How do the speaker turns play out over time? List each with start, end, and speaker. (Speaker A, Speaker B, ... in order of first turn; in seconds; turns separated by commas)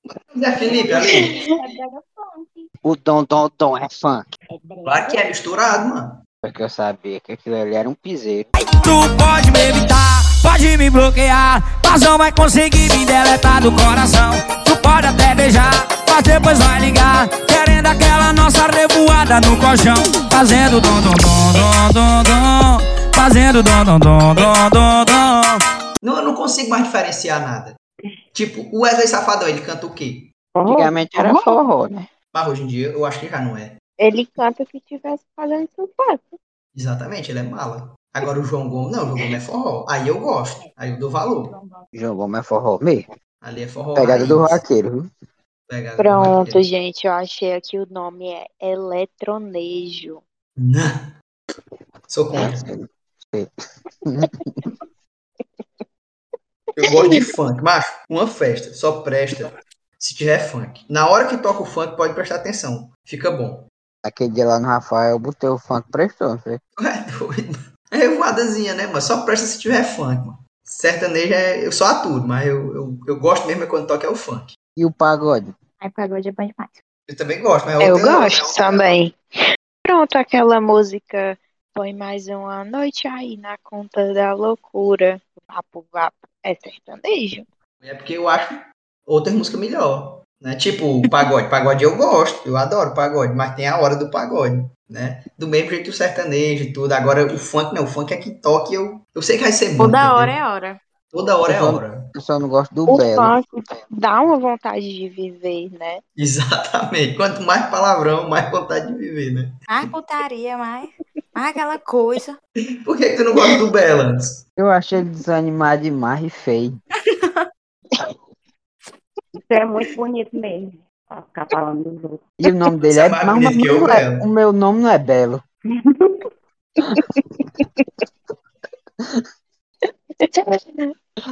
Speaker A: 0.3-1.3, Speaker B: 0.6-2.7, Speaker C: 0.9-1.5, Speaker D: 2.8-4.3, Speaker B: 4.5-5.2, Speaker A: 4.8-6.2, Speaker D: 6.4-8.5, Speaker E: 8.6-25.6, Speaker A: 26.0-27.8, Speaker A: 28.3-30.3, Speaker F: 30.5-30.9, Speaker D: 30.6-32.1, Speaker C: 31.1-31.6, Speaker A: 32.3-33.8, Speaker C: 34.0-36.4, Speaker A: 36.8-41.5, Speaker B: 41.5-41.8, Speaker D: 41.9-43.0, Speaker A: 43.4-44.6, Speaker D: 44.0-45.1, Speaker A: 45.7-46.6, Speaker C: 46.0-50.2, Speaker A: 50.6-51.1, Speaker A: 52.1-52.6, Speaker D: 52.3-53.5, Speaker D: 54.0-54.7, Speaker A: 56.8-63.6, Speaker C: 56.8-57.2, Speaker D: 64.0-66.6, Speaker A: 66.8-74.5, Speaker D: 74.8-75.5, Speaker B: 75.8-76.8, Speaker A: 77.1-78.9, Speaker C: 77.8-79.2, Speaker C: 79.8-87.4, Speaker A: 87.8-100.4, Speaker B: 99.8-100.8, Speaker A: 101.1-102.0, Speaker D: 101.4-103.3, Speaker C: 102.9-106.0, Speaker A: 106.2-109.5, Speaker B: 109.7-112.4, Speaker A: 112.8-114.4, Speaker D: 114.6-116.8, Speaker F: 119.4-122.2, Speaker D: 122.4-125.4, Speaker A: 122.8-124.3, Speaker F: 125.7-126.3, Speaker C: 126.8-127.8, Speaker C: 130.2-130.9